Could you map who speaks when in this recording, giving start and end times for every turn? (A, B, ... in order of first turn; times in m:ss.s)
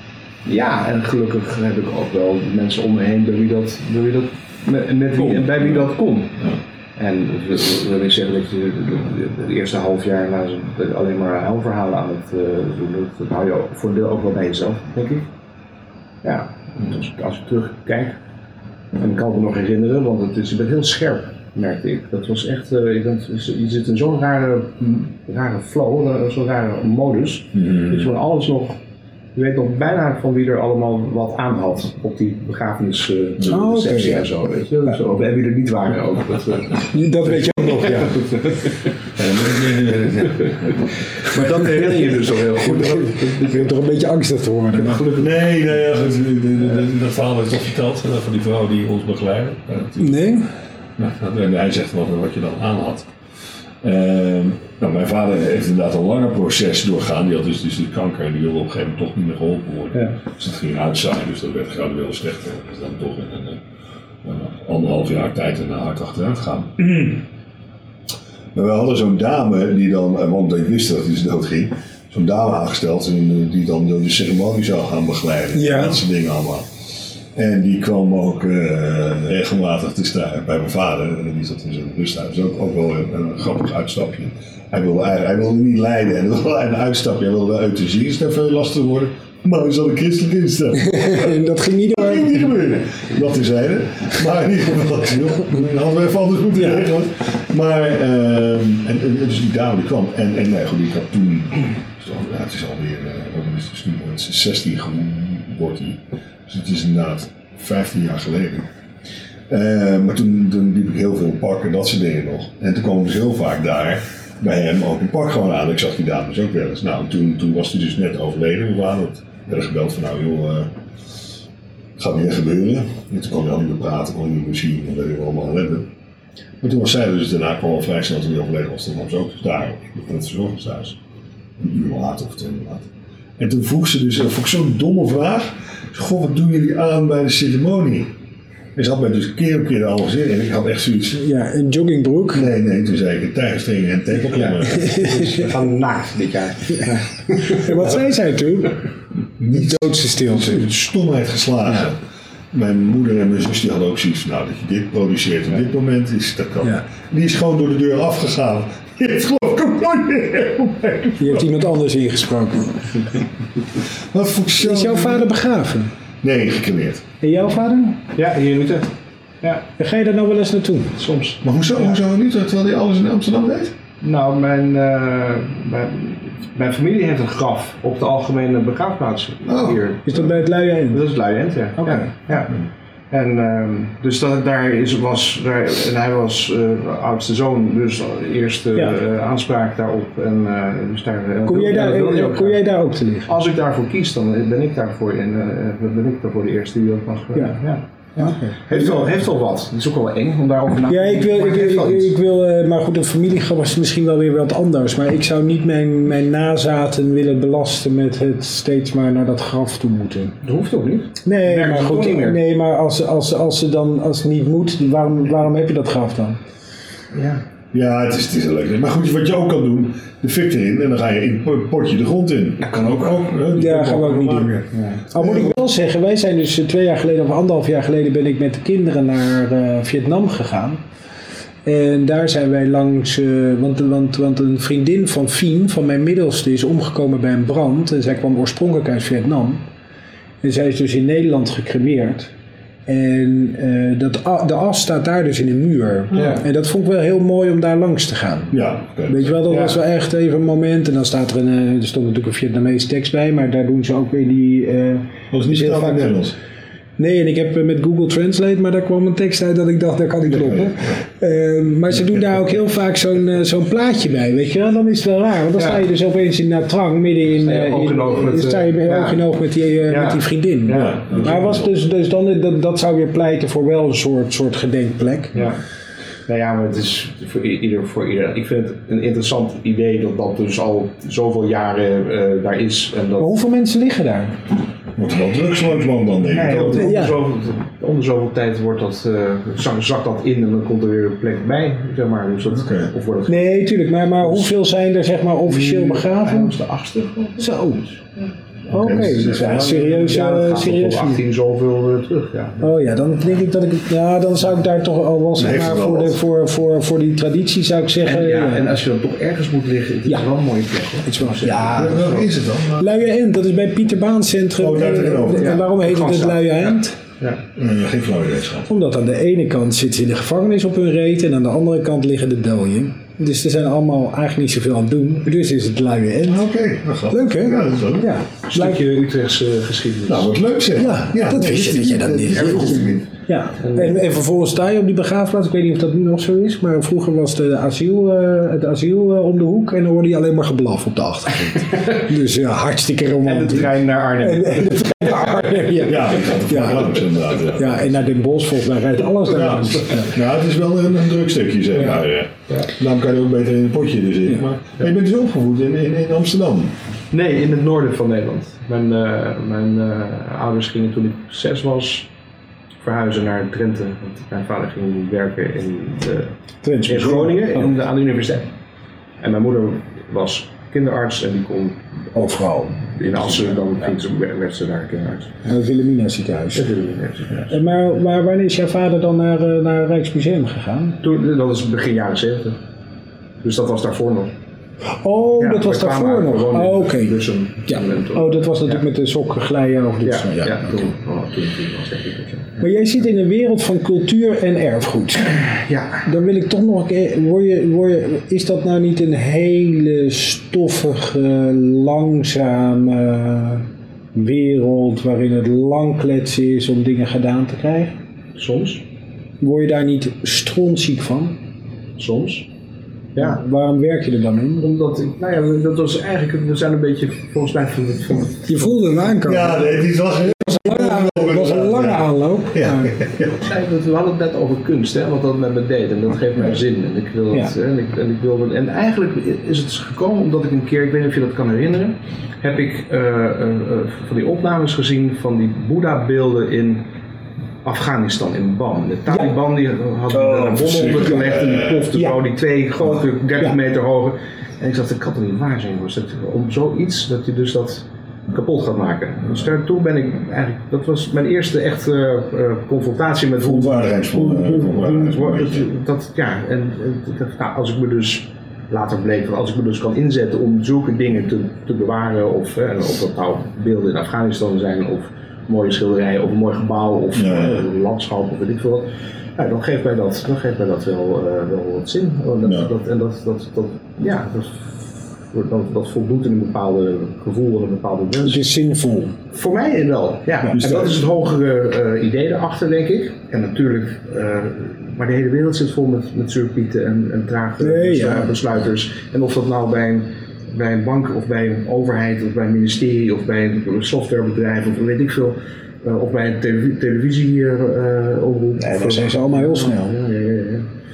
0:00.5-0:06.4 A
0:05.2-0:05.9 B
0:07.0-0:15.3 A
0:16.2-0:18.2 A
0:19.0-0:28.8 A
0:27.6-0:28.0 B
0:29.4-0:38.8 A
0:33.5-0:34.3 C
0:36.9-0:38.6 C
0:39.2-0:40.8 B
0:40.2-0:40.6 A
0:41.2-0:43.8 A
0:42.6-0:45.1 C
0:44.7-0:45.3 A
0:45.2-0:50.2 B
0:50.0-0:50.5 C
0:51.0-0:53.1 B
0:53.8-1:03.6 B
1:04.2-1:07.2 B
1:08.5-1:16.7 B
1:15.5-1:16.0 C
1:17.4-1:31.4 B
1:30.8-1:32.5 C
1:31.9-1:48.7 B
1:49.5-2:00.7 B
2:02.0-2:05.9 B
2:06.6-2:11.0 B
2:11.6-2:18.1 B
2:18.8-2:21.2 B
2:21.2-2:22.5 C
2:22.3-2:25.3 B
2:24.3-2:27.8 A
2:24.7-2:25.4 C
2:26.7-2:28.8 C
2:29.4-2:32.0 B
2:29.5-2:30.7 C
2:32.5-2:41.5 B
2:41.2-2:43.1 C
2:44.1-2:45.3 B
2:44.6-2:45.9 C
2:46.2-2:47.0 B
2:47.2-2:48.1 C
2:48.2-2:48.9 A
2:49.8-2:51.0 C
2:51.0-2:52.0 A
2:51.4-2:53.7 B
2:54.0-3:00.3 A
2:59.4-2:59.8 B
3:00.1-3:01.0 C
3:00.9-3:02.6 A
3:01.8-3:02.1 C
3:03.1-3:12.6 A
3:11.5-3:13.3 C
3:13.3-3:22.1 A
3:18.2-3:19.1 C
3:20.9-3:30.4 C
3:30.4-3:32.4 A
3:31.2-3:36.4 C
3:37.1-3:37.4 A
3:37.7-3:44.6 B
3:42.6-3:43.0 A
3:43.5-3:50.8 C
3:44.7-3:45.1 A
3:45.2-3:45.5 B
3:51.6-3:59.6 C
4:00.4-4:02.3 C
4:02.9-4:08.6 C
4:06.1-4:06.4 A
4:08.5-4:09.4 B
4:09.1-4:16.2 C
4:09.5-4:09.8 A
4:15.3-4:16.4 B
4:17.0-4:35.4 C
4:20.3-4:21.0 B
4:27.4-4:29.2 A
4:29.9-4:31.4 A
4:30.7-4:31.7 B
4:36.3-4:43.3 A
4:43.2-4:44.4 C
4:45.0-4:46.9 B
4:46.2-4:53.5 A
4:46.7-4:47.2 C
4:52.5-4:52.9 B
4:53.3-4:56.6 C
4:54.2-4:54.5 A
4:55.5-4:58.3 A
4:57.4-4:57.8 C
4:58.7-4:59.7 B
4:58.7-5:01.2 C
4:59.2-5:02.8 A
5:02.6-5:08.7 C
5:05.4-5:06.2 B
5:08.0-5:12.2 A
5:11.1-5:12.3 C
5:11.8-5:12.9 B
5:12.8-5:17.0 C
5:14.6-5:15.6 B
5:15.3-5:17.4 A
5:17.6-5:18.7 B
5:18.7-5:26.5 C
5:26.3-5:28.2 B
5:27.1-5:28.8 C
5:28.5-5:30.3 A
5:30.1-5:33.0 B
5:30.8-5:50.1 C
5:32.4-5:33.0 A
5:33.6-5:34.0 A
5:43.2-5:45.9 A
5:45.8-5:48.0 B
5:49.3-5:56.7 B
5:57.1-6:02.1 A
6:02.8-6:06.3 A
6:06.6-6:07.7 C
6:06.9-6:08.5 A
6:09.2-6:15.4 A
6:12.2-6:12.8 C
6:15.4-6:16.7 C
6:16.5-6:17.5 A
6:17.5-6:21.0 C
6:21.0-6:22.6 A
6:23.4-6:24.3 A
6:24.8-6:30.9 C
6:25.4-6:28.8 A
6:30.0-6:32.6 A
6:32.6-6:35.4 C
6:35.4-6:36.1 A
6:36.0-6:48.0 C
6:48.4-6:48.8 A
6:49.4-6:51.4 C
6:52.0-6:52.5 A
6:53.2-6:53.4 A
6:53.2-6:54.7 C
6:54.6-6:58.8 A
6:58.5-7:03.0 C
6:59.2-7:03.3 B
7:03.1-7:16.9 A
7:17.6-7:54.8 A
7:20.1-7:21.9 B
7:33.4-7:35.7 B
7:47.2-7:47.6 B
7:52.4-7:52.7 B
7:55.3-7:58.5 A
7:58.2-7:59.2 C
7:59.3-8:20.7 A
8:00.5-8:01.0 B
8:07.6-8:08.3 C
8:18.6-8:20.0 C